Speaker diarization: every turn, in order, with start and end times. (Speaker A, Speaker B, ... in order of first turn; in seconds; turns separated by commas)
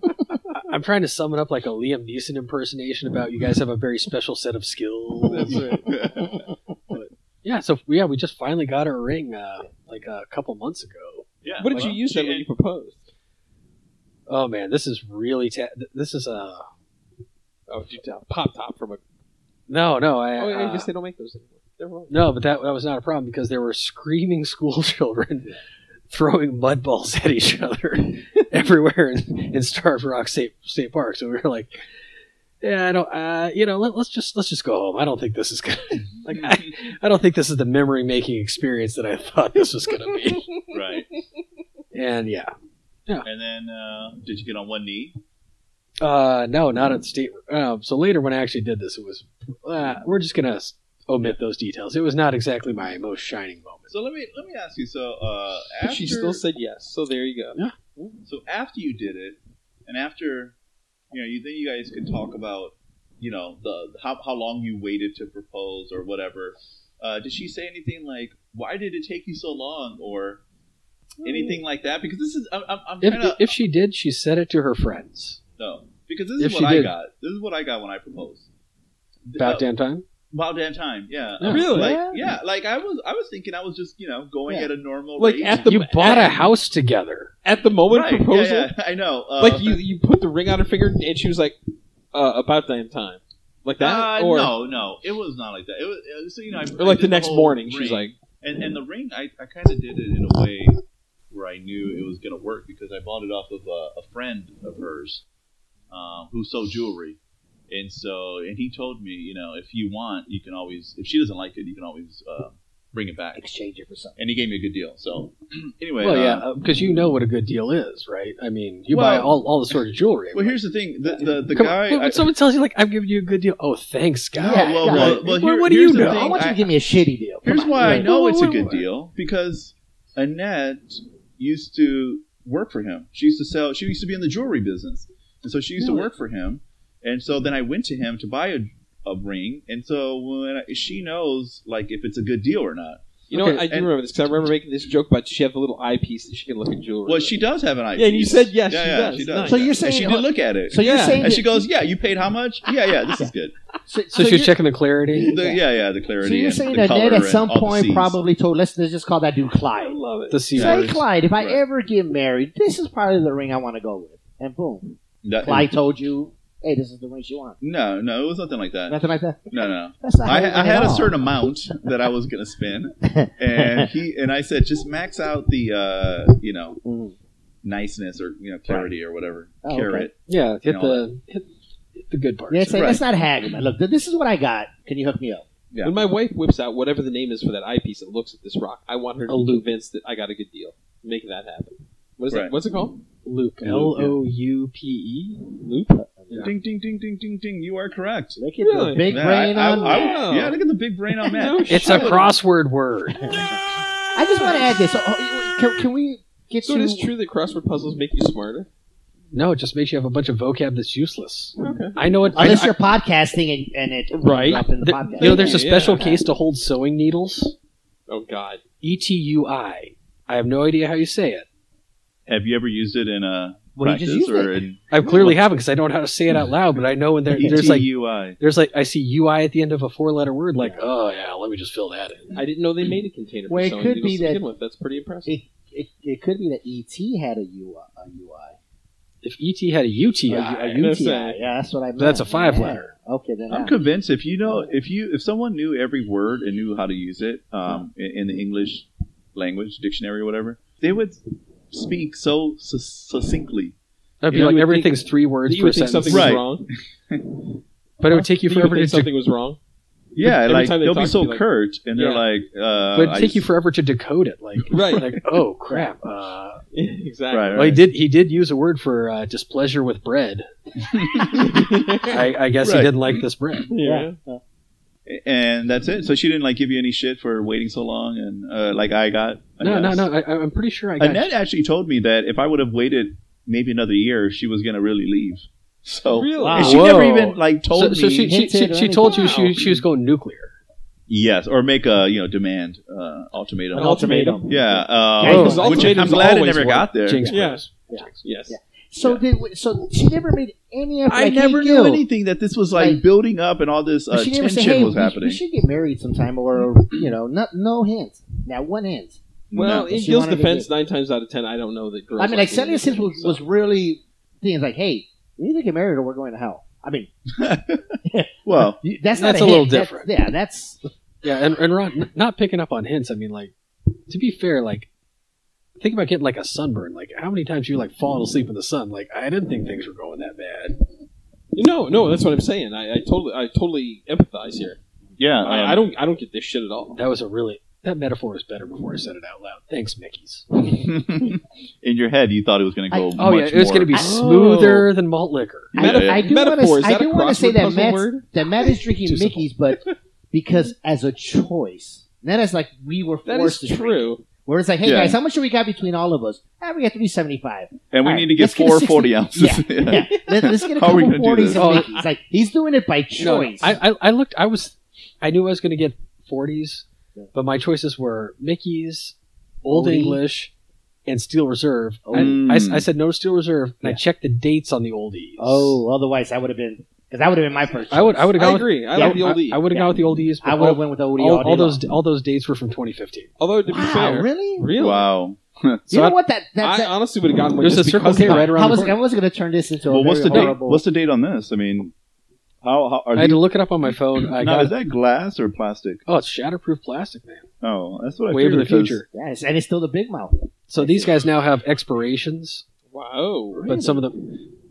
Speaker A: 0.5-5.7, Speaker B: 5.3-6.0, Speaker C: 5.5-6.4, Speaker A: 7.4-11.2, Speaker C: 11.4-12.5, Speaker B: 11.6-13.0, Speaker A: 14.3-16.7, Speaker B: 17.7-19.0, Speaker A: 19.7-20.9, Speaker B: 20.4-22.2, Speaker A: 22.1-25.5, Speaker A: 26.1-31.8, Speaker A: 32.6-40.5, Speaker C: 36.3-36.7, Speaker B: 40.5-41.0, Speaker C: 40.7-41.1, Speaker A: 41.9-42.5, Speaker C: 43.2-45.2, Speaker A: 46.0-53.9, Speaker C: 53.9-56.4, Speaker B: 55.8-57.6, Speaker C: 58.2-60.5, Speaker C: 61.1-70.4, Speaker B: 71.2-71.6, Speaker C: 71.2-73.6, Speaker A: 73.0-75.4, Speaker C: 75.6-78.5, Speaker A: 76.4-77.0, Speaker C: 79.3-79.7, Speaker A: 79.4-80.0, Speaker C: 80.3-86.3, Speaker A: 81.4-81.7, Speaker B: 81.5-82.0, Speaker D: 81.7-82.2, Speaker D: 84.5-84.7, Speaker B: 85.2-86.3, Speaker A: 85.5-87.3, Speaker B: 87.5-88.7, Speaker C: 87.9-89.8, Speaker B: 89.4-91.6, Speaker B: 92.1-94.5, Speaker C: 93.8-105.2, Speaker B: 96.8-98.2, Speaker C: 105.9-107.2, Speaker C: 107.7-113.4, Speaker D: 113.3-114.2, Speaker C: 114.2-116.5, Speaker A: 116.0-120.6, Speaker C: 118.9-119.4, Speaker C: 120.3-122.3, Speaker A: 121.5-126.4, Speaker D: 124.4-125.3, Speaker C: 124.4-126.7, Speaker D: 126.0-128.1, Speaker C: 127.4-143.9, Speaker A: 127.7-128.8, Speaker B: 135.8-136.1, Speaker B: 143.3-147.4, Speaker A: 143.3-143.6, Speaker C: 147.1-153.5, Speaker B: 147.9-149.7, Speaker D: 149.4-151.7, Speaker B: 150.8-151.4, Speaker D: 153.9-154.6, Speaker A: 154.1-155.3, Speaker C: 155.2-158.2, Speaker D: 155.2-155.6, Speaker D: 156.2-160.0, Speaker B: 159.7-160.5, Speaker A: 160.3-161.1, Speaker D: 160.6-167.6, Speaker C: 160.6-161.6, Speaker C: 165.2-165.7, Speaker C: 167.6-169.0, Speaker D: 168.9-171.3, Speaker C: 169.5-176.8, Speaker D: 173.0-173.9, Speaker D: 176.8-177.2, Speaker C: 177.6-181.1, Speaker D: 178.7-178.9, Speaker D: 179.6-180.1, Speaker A: 180.3-182.9, Speaker D: 182.5-185.4, Speaker C: 182.7-183.0, Speaker C: 185.7-186.0, Speaker B: 185.8-193.0, Speaker A: 189.3-189.7, Speaker C: 192.3-192.6, Speaker A: 193.2-195.5, Speaker C: 193.6-194.1, Speaker B: 195.6-196.0, Speaker D: 196.0-196.5, Speaker C: 196.4-198.4, Speaker D: 198.4-200.3, Speaker B: 198.6-200.6, Speaker C: 199.1-202.3, Speaker B: 201.2-202.3, Speaker A: 201.7-203.4, Speaker D: 203.2-203.6, Speaker D: 204.2-207.1, Speaker B: 206.6-208.7, Speaker A: 209.3-212.8, Speaker B: 211.6-212.0, Speaker D: 212.3-216.2, Speaker B: 214.1-216.1, Speaker A: 214.8-217.6, Speaker B: 218.1-218.6, Speaker A: 218.8-221.5, Speaker C: 222.3-225.4, Speaker D: 223.8-224.6, Speaker A: 224.9-232.4, Speaker C: 227.3-228.4, Speaker D: 227.4-227.7, Speaker D: 230.6-230.8, Speaker B: 232.3-235.3, Speaker D: 233.5-234.4, Speaker D: 235.3-238.6, Speaker A: 239.2-240.8, Speaker D: 240.3-243.8, Speaker B: 240.8-241.4, Speaker A: 242.0-242.9, Speaker C: 243.5-253.8, Speaker A: 254.2-256.4, Speaker B: 254.3-256.7, Speaker C: 256.1-256.5, Speaker C: 257.1-257.4, Speaker A: 258.0-259.1, Speaker B: 258.1-259.6, Speaker C: 260.2-263.5, Speaker B: 260.2-262.2, Speaker A: 262.9-266.6, Speaker B: 264.7-265.1, Speaker B: 266.7-267.8, Speaker C: 267.3-267.9, Speaker A: 267.6-270.5, Speaker C: 270.9-271.6, Speaker B: 271.3-272.2, Speaker A: 272.1-273.7, Speaker C: 272.6-273.2, Speaker B: 273.7-274.2, Speaker D: 273.8-274.4, Speaker C: 275.1-280.1, Speaker A: 279.6-281.3, Speaker C: 281.0-288.3, Speaker B: 286.1-286.9, Speaker D: 286.4-287.0, Speaker A: 286.6-290.6, Speaker D: 288.2-289.7, Speaker B: 289.0-289.6, Speaker C: 291.1-297.3, Speaker D: 293.7-296.1, Speaker B: 293.8-294.5, Speaker B: 295.2-297.6, Speaker A: 295.2-298.3, Speaker D: 297.9-302.1, Speaker B: 298.2-299.2, Speaker C: 301.1-305.4, Speaker D: 302.8-303.0, Speaker D: 304.1-309.2, Speaker C: 309.5-309.9, Speaker B: 309.5-313.4, Speaker D: 309.9-310.7, Speaker D: 312.2-317.1, Speaker C: 317.4-318.8, Speaker D: 318.1-320.9, Speaker A: 319.2-320.1, Speaker A: 321.2-323.5, Speaker A: 324.1-324.9, Speaker A: 325.8-330.8, Speaker B: 331.5-334.8, Speaker C: 335.2-335.8, Speaker B: 335.4-337.0, Speaker A: 337.0-340.5, Speaker C: 340.5-343.9, Speaker A: 343.1-345.7, Speaker B: 343.9-344.9, Speaker C: 345.8-346.3, Speaker D: 345.8-363.8, Speaker B: 345.8-348.7, Speaker A: 349.0-349.5, Speaker B: 353.2-354.2, Speaker C: 354.8-355.2, Speaker C: 357.9-361.8, Speaker A: 361.5-361.9, Speaker A: 363.2-370.5, Speaker D: 369.7-370.2, Speaker A: 371.1-375.8, Speaker D: 372.1-372.4, Speaker C: 372.1-372.9, Speaker D: 375.4-378.4, Speaker A: 377.9-383.3, Speaker B: 378.4-379.7, Speaker D: 378.9-381.8, Speaker B: 383.4-385.1, Speaker D: 383.7-384.7, Speaker C: 384.8-385.9, Speaker D: 385.9-386.9, Speaker B: 386.6-388.6, Speaker A: 387.6-389.0, Speaker D: 388.2-390.8, Speaker C: 389.9-391.9, Speaker A: 390.3-390.6, Speaker C: 392.6-396.0, Speaker A: 393.1-394.8, Speaker A: 396.1-397.5, Speaker C: 397.6-399.0, Speaker A: 398.3-399.1, Speaker D: 399.1-401.1, Speaker A: 400.7-402.6, Speaker B: 402.9-403.7, Speaker D: 403.5-404.1, Speaker A: 403.6-404.4